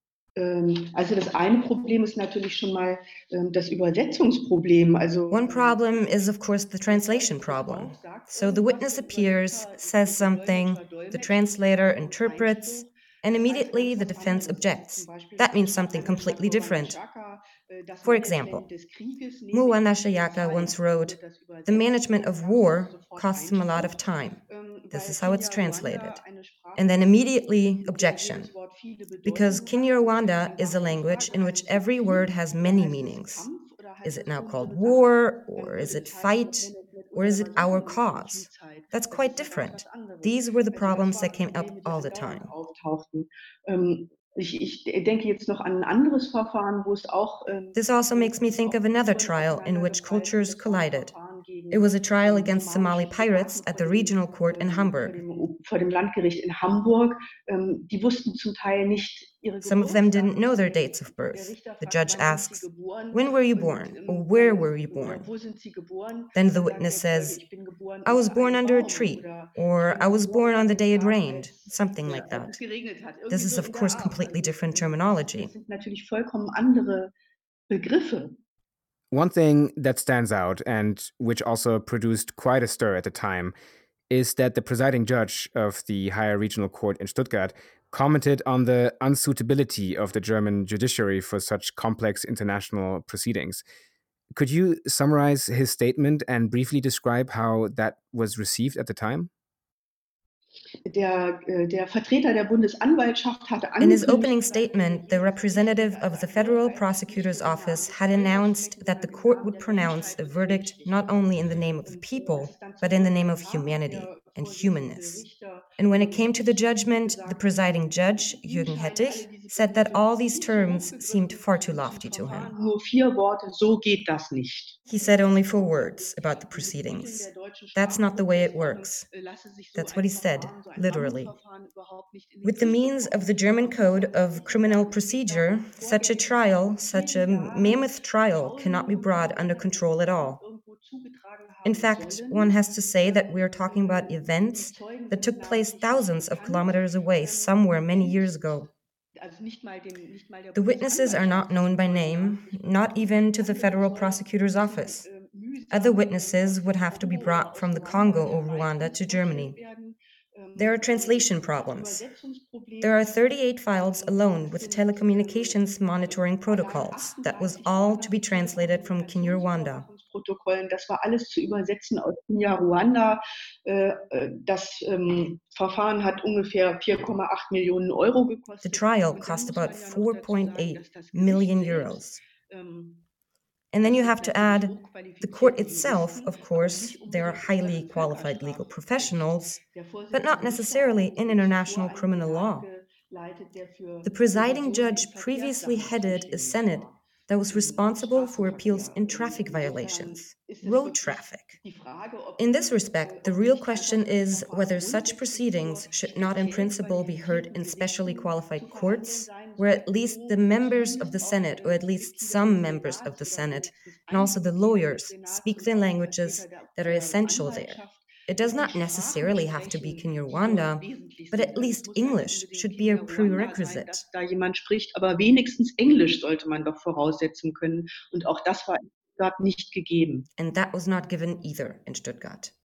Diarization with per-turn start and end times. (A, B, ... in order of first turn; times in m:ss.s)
0:00.4-0:06.3 A
0:05.3-0:17.0 B
0:06.9-1:17.1 A
0:18.0-0:18.7 B
0:19.5-0:24.4 B
0:24.9-0:26.2 B
0:26.8-0:28.5 B
0:29.2-0:33.4 B
0:34.0-0:42.5 B
0:47.8-0:51.1 B
0:51.7-0:55.2 B
0:59.6-1:05.3 B
1:06.4-1:07.4 B
1:08.1-1:12.6 B
1:13.3-1:15.5 B
1:17.7-1:18.4 A
1:19.1-1:23.5 C
1:24.1-1:33.6 C
1:34.3-1:39.3 C
1:40.8-2:28.7 A
1:43.8-1:55.2 B
1:55.8-2:02.5 B
2:04.9-2:09.0 B
2:09.8-2:11.3 B
2:12.4-2:20.4 B
2:21.6-2:28.7 B
2:29.2-3:03.0 A
2:30.6-2:35.1 B
2:35.7-2:39.6 B
2:40.6-2:42.0 B
2:42.8-2:49.9 B
2:58.6-3:02.2 B
3:03.7-3:09.6 B
3:03.8-3:50.3 A
3:10.1-3:12.7 B
3:14.0-3:21.6 B
3:22.4-3:44.0 B
3:50.4-3:52.5 B